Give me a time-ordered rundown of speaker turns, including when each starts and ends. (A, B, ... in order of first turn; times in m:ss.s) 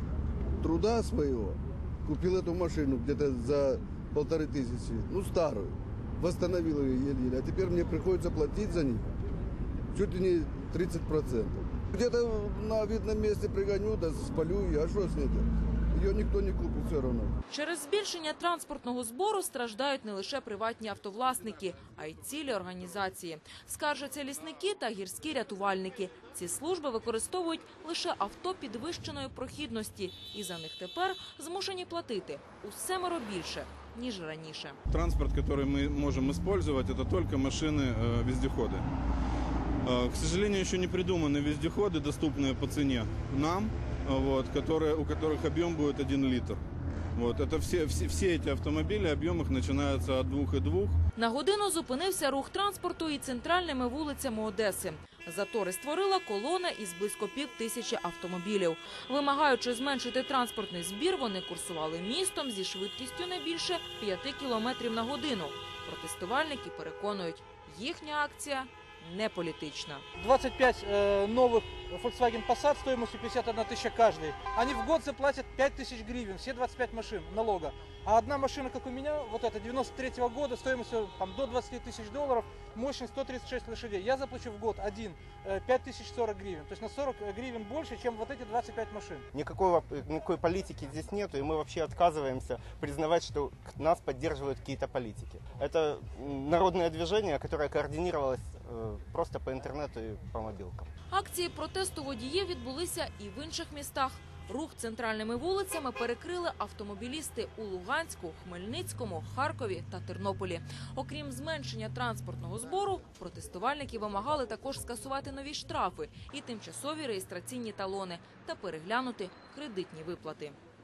0:00.6-0:09.1 A
0:09.9-0:17.3 A
0:17.5-0:34.8 B
0:34.9-0:38.8 C
0:39.8-0:46.6 C
0:47.2-0:51.0 C
0:51.2-1:10.0 B
1:10.2-1:29.2 D
1:29.3-1:40.9 E
1:41.1-2:00.6 B